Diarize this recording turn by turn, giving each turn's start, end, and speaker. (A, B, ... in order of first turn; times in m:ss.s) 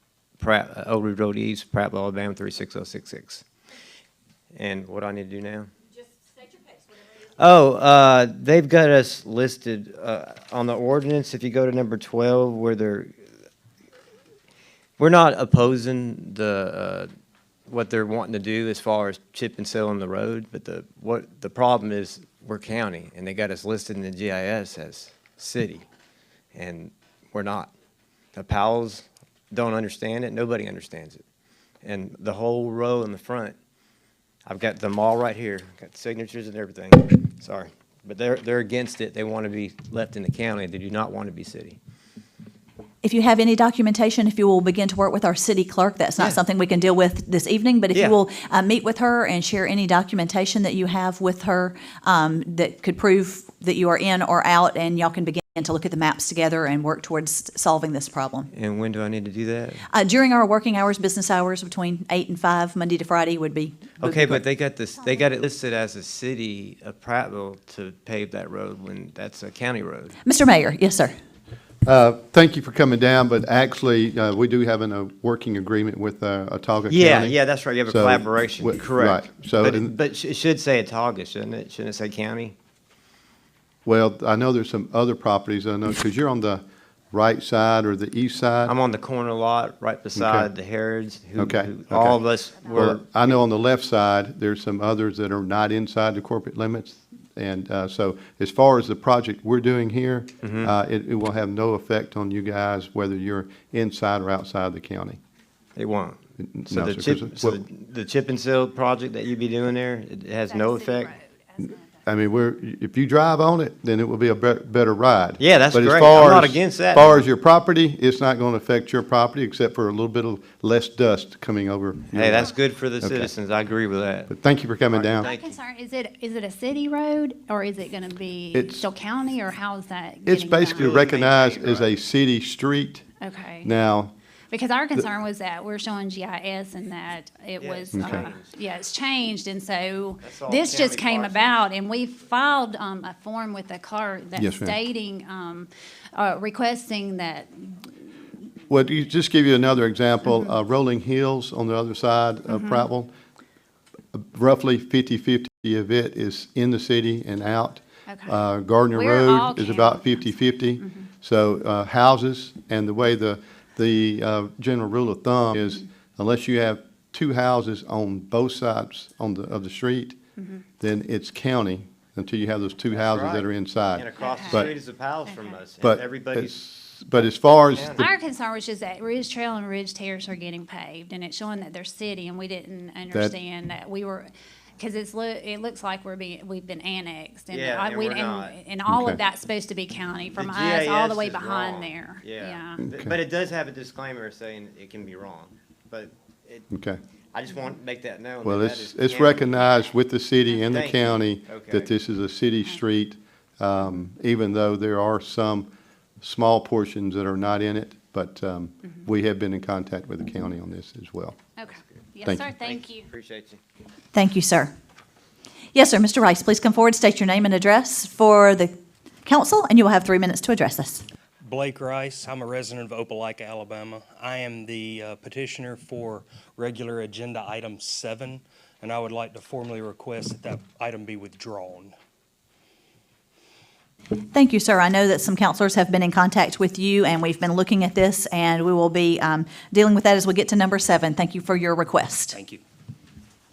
0:00.4-0:03.4 A
0:04.6-0:05.7 A
0:07.4-0:13.1 A
0:15.0-0:17.1 A
0:17.7-0:25.9 A
0:26.6-0:27.7 A
0:28.3-0:31.2 A
0:31.8-0:33.6 A
0:34.4-0:41.8 A
0:43.0-0:58.5 B
0:47.9-0:48.2 A
0:58.5-0:59.8 A
0:59.9-1:03.9 B
1:04.0-1:10.2 A
1:10.2-1:11.1 B
1:11.8-1:19.9 C
1:16.9-1:22.5 A
1:23.8-1:28.8 C
1:28.7-1:33.4 A
1:30.2-1:30.5 C
1:31.4-1:45.2 C
1:40.4-1:40.7 A
1:45.8-1:51.1 A
1:46.4-1:47.6 C
1:50.5-1:51.2 D
1:52.1-2:02.5 C
1:55.4-1:57.2 A
2:02.1-2:04.4 A
2:03.0-2:03.3 C
2:04.3-2:05.3 C
2:04.9-2:05.6 A
2:05.2-2:10.9 D
2:08.5-2:08.8 C
2:10.2-2:13.0 C
2:10.7-2:11.9 A
2:13.2-2:13.7 D
2:13.6-2:14.1 C
2:14.5-2:27.8 D
2:17.6-2:18.5 A
2:17.9-2:18.3 C
2:20.2-2:21.7 A
2:24.4-2:24.8 C
2:28.7-2:33.1 C
2:32.5-2:32.9 D
2:34.1-2:50.2 C
2:38.1-2:38.4 D
2:38.9-2:41.1 D
2:50.4-2:50.6 D
2:50.8-2:54.8 C
2:52.9-2:56.6 A
2:54.2-2:54.6 D
2:55.3-2:55.5 D
2:55.8-2:58.1 C
2:57.7-2:58.1 A
2:58.0-3:12.8 D
3:07.5-3:08.6 A
3:08.9-3:09.2 C
3:10.4-3:16.7 A
3:12.8-3:13.1 C
3:16.7-3:17.0 C
3:17.3-3:19.8 A
3:18.4-3:25.7 C
3:20.7-3:21.9 A
3:26.2-3:31.4 C
3:31.6-3:33.0 D
3:32.2-3:32.6 C
3:32.5-3:33.6 A
3:34.1-3:34.7 B
3:35.7-3:41.1 B
3:41.4-3:51.9 E
3:54.2-4:02.4 B
4:02.3-4:02.6 E